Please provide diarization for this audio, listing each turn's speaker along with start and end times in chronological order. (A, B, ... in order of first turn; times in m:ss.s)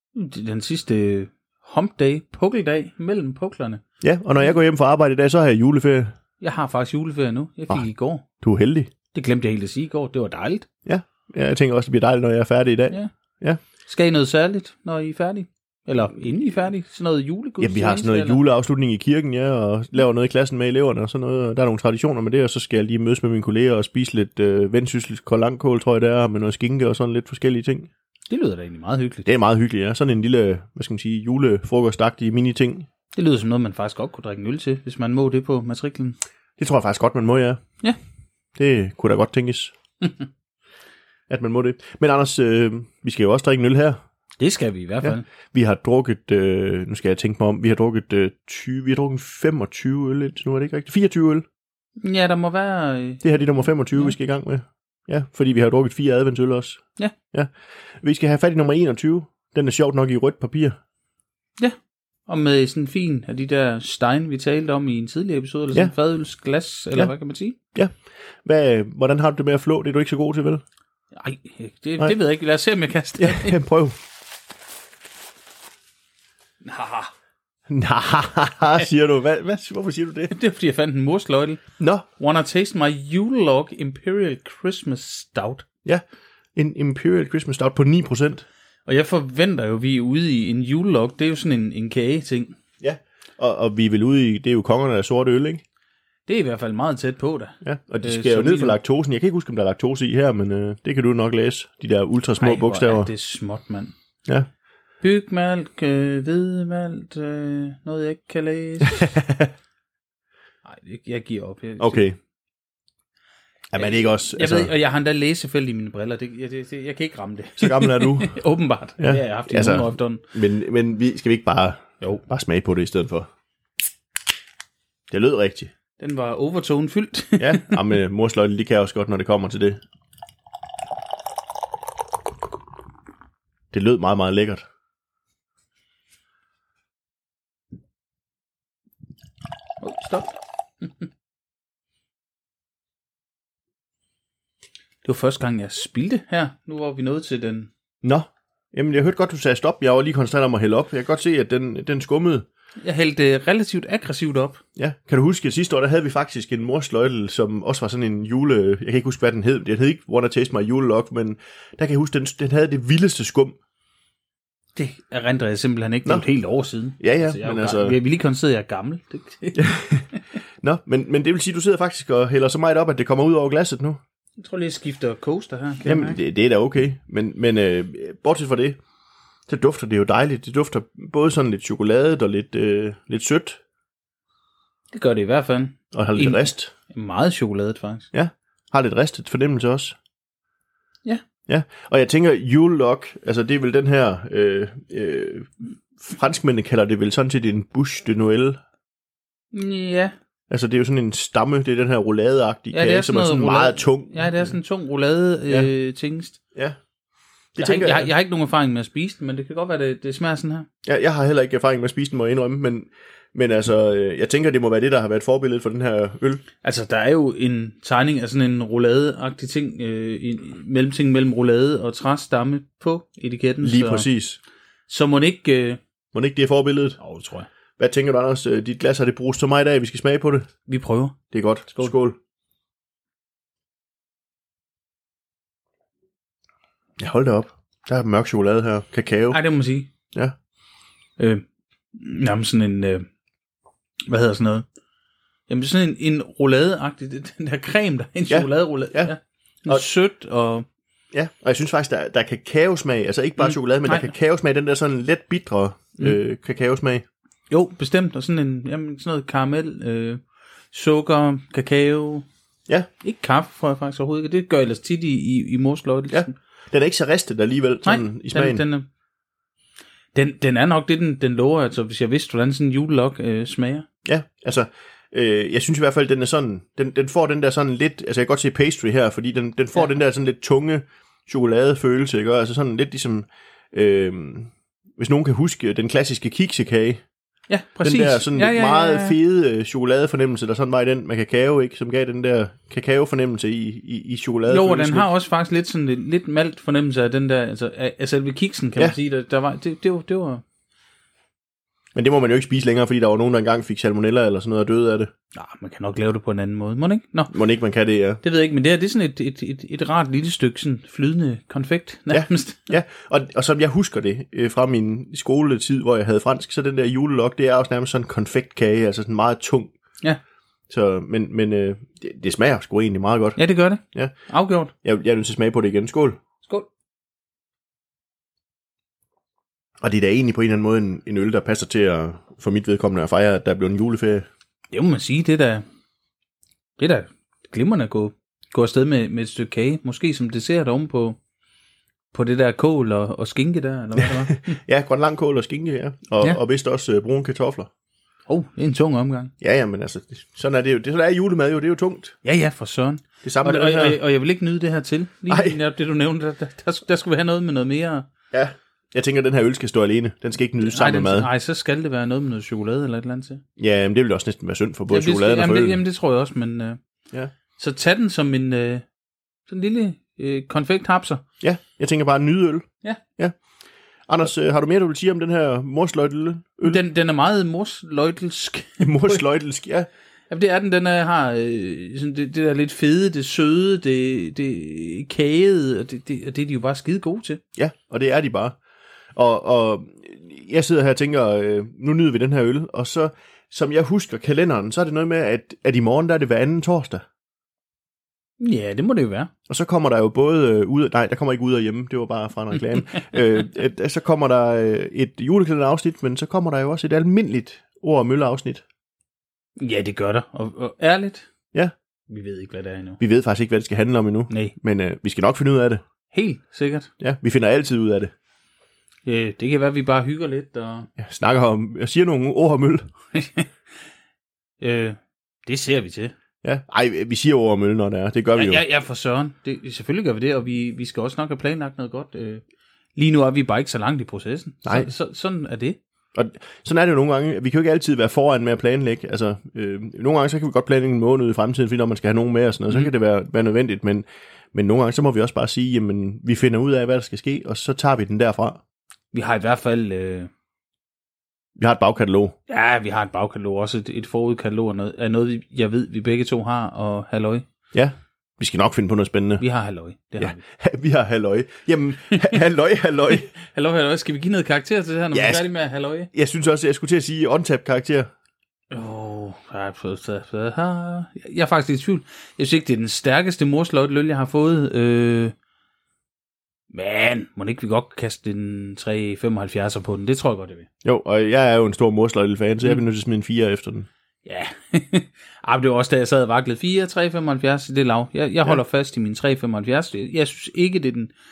0:00.1-0:03.8 A
0:04.0-0:06.1 B
0:06.4-0:08.2 A
0:08.4-0:08.9 B
0:09.1-0:10.6 A
0:10.8-0:13.6 B
0:13.8-0:18.4 A
0:17.6-0:27.9 B
0:28.3-0:29.2 A
0:29.2-0:32.9 B
0:33.1-0:36.2 A
0:36.6-0:37.6 B
0:38.6-0:39.7 B
0:41.3-0:44.0 B
0:44.4-0:45.3 A
0:45.0-0:51.4 B
0:52.0-0:53.2 A
0:53.2-1:00.8 B
1:02.3-1:07.6 A
1:08.4-1:10.6 B
1:11.1-1:13.6 A
1:13.2-1:14.0 B
1:16.6-1:17.1 A
1:17.7-1:20.3 B
1:20.3-1:21.6 A
1:21.8-1:22.0 B
1:22.2-1:25.6 A
1:26.5-1:28.4 B
1:28.8-1:32.6 A
1:32.8-1:35.6 B
1:36.3-1:38.8 A
1:37.6-1:43.1 B
1:42.4-1:43.9 A
1:45.0-1:49.1 A
1:48.9-1:49.5 B
1:50.6-1:52.0 A
1:51.8-1:52.2 B
1:53.7-1:54.7 B
1:53.8-2:00.2 A
1:57.6-1:58.4 B
1:59.0-2:03.3 B
2:05.1-2:05.7 B
2:06.0-2:07.8 A
2:07.4-2:09.8 B
2:13.7-2:14.6 B
2:19.8-2:21.0 A
2:25.0-2:27.7 A
2:28.0-2:32.4 B
2:32.8-2:34.6 A
2:34.8-2:43.6 B
2:44.8-2:50.2 A
2:47.0-2:48.0 B
2:49.5-2:50.1 B
2:50.6-2:54.0 B
2:54.4-2:56.2 A
2:55.8-2:58.8 B
2:59.5-3:03.6 B
3:04.9-3:08.1 A
3:05.9-3:06.7 B
3:08.1-3:10.0 B
3:11.5-3:18.6 B
3:19.5-3:20.1 A
3:20.5-3:24.5 B
3:22.7-3:26.4 A
3:27.5-3:28.1 B
3:27.6-3:30.7 A
3:30.8-3:36.4 B
3:36.6-3:44.1 A
3:43.6-3:44.4 B
3:44.9-3:45.8 A
3:46.1-3:47.0 B
3:47.0-3:47.5 A
3:47.8-3:50.4 B
3:50.7-3:51.2 A
3:51.3-3:52.2 B
3:51.7-3:51.9 A
3:57.0-3:59.4 B
3:59.3-3:59.9 A
4:01.2-4:01.4 A
4:01.9-4:03.1 A
4:04.1-4:04.7 A
4:05.5-4:10.6 A
4:08.3-4:09.1 B
4:11.1-4:17.0 B
4:13.4-4:14.1 A
4:17.5-4:20.2 A
4:20.7-4:22.2 A
4:23.0-4:26.3 A
4:26.1-4:28.6 B
4:27.8-4:28.9 A
4:30.1-4:33.8 A
4:34.0-4:47.0 B
4:47.5-4:49.2 A
4:47.8-4:55.1 B
4:54.5-5:00.4 A
5:01.9-5:05.1 B
5:05.3-5:07.3 A
5:07.3-5:08.2 B
5:08.2-5:12.7 A
5:12.1-5:19.7 B
5:20.7-5:23.4 B
5:23.4-5:24.7 A
5:24.8-5:26.2 B
5:29.8-5:34.3 B
5:34.7-5:35.6 A
5:36.8-5:41.2 A
5:42.1-5:44.6 A
5:44.0-5:47.7 B
5:48.3-5:49.3 A
5:49.4-5:52.2 B
5:52.2-5:58.1 A
5:53.2-5:54.0 B
5:55.3-5:55.6 B
5:58.3-6:01.3 B
6:00.6-6:03.4 A
6:03.6-6:05.8 B
6:04.9-6:06.8 A
6:07.6-6:08.8 A
6:09.5-6:11.2 A
6:11.4-6:12.6 B
6:14.1-6:16.8 B
6:16.6-6:19.2 A
6:18.8-6:19.9 B
6:20.3-6:27.4 A
6:27.6-6:28.6 B
6:29.1-6:37.0 B
6:38.4-6:39.3 A
6:39.5-6:48.6 B
6:49.6-6:51.3 A
6:52.1-6:53.0 A
6:53.0-6:55.8 B
6:54.3-6:54.5 A
6:56.1-6:56.9 A
6:57.0-6:58.1 B
6:59.0-7:00.9 A
7:01.0-7:02.8 B
7:03.1-7:03.5 A
7:04.6-7:06.1 A
7:06.4-7:08.6 B
7:08.3-7:12.4 A
7:13.0-7:15.8 A
7:14.6-7:14.9 B
7:16.1-7:28.6 B
7:29.1-7:30.3 A
7:31.6-7:32.3 B
7:32.5-7:37.4 A
7:37.7-7:39.4 B
7:39.4-7:40.4 A
7:40.2-7:43.3 B
7:42.1-7:42.4 A
7:43.3-7:46.1 A
7:45.1-7:45.5 B
7:46.1-7:48.1 B
7:48.7-7:55.3 A
7:56.7-8:00.6 A
8:00.8-8:03.9 B
8:04.2-8:11.1 A